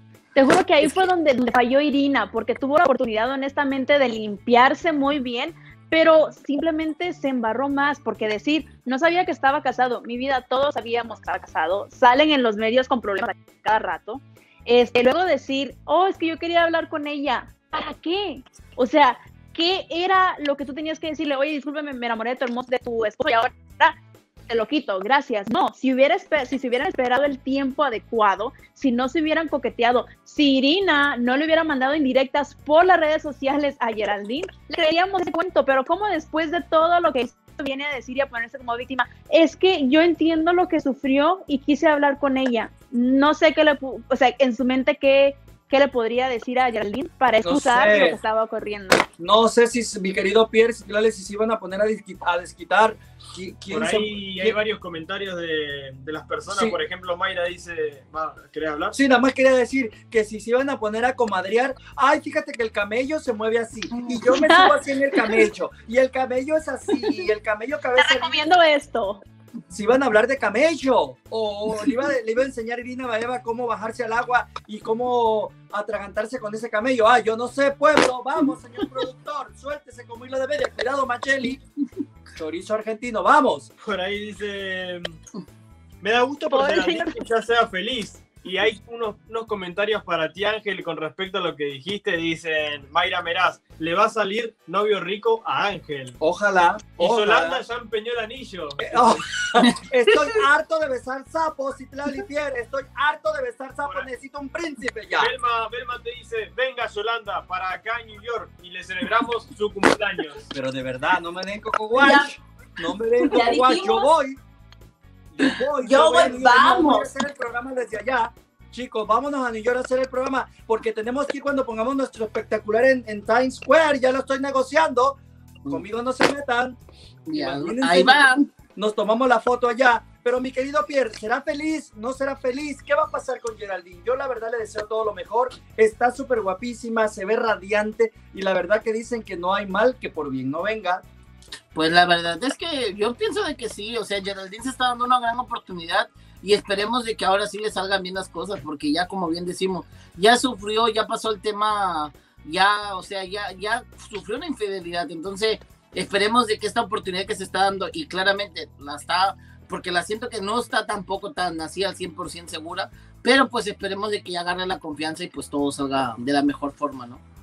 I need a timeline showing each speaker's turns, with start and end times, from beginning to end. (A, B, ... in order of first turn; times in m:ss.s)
0:00.3-0:23.9 A
0:24.5-0:49.0 A
0:47.4-0:48.2 B
0:49.2-0:54.6 B
0:53.7-0:59.0 C
0:56.5-0:56.8 B
0:58.9-1:08.4 B
1:04.3-1:05.5 A
1:08.0-1:09.2 A
1:09.7-1:21.6 B
1:22.3-1:23.7 B
1:23.8-1:25.1 C
1:26.0-1:36.2 C
1:26.5-1:27.2 A
1:36.2-1:37.6 B
1:37.0-1:39.2 C
1:38.8-1:45.3 B
1:43.8-1:44.1 C
1:45.1-1:50.5 C
1:50.5-1:54.4 B
1:52.0-1:52.3 A
1:53.3-1:54.1 A
1:55.3-2:06.8 B
1:55.9-1:57.1 A
2:07.3-2:08.5 D
2:07.3-2:21.0 B
2:21.7-2:47.2 D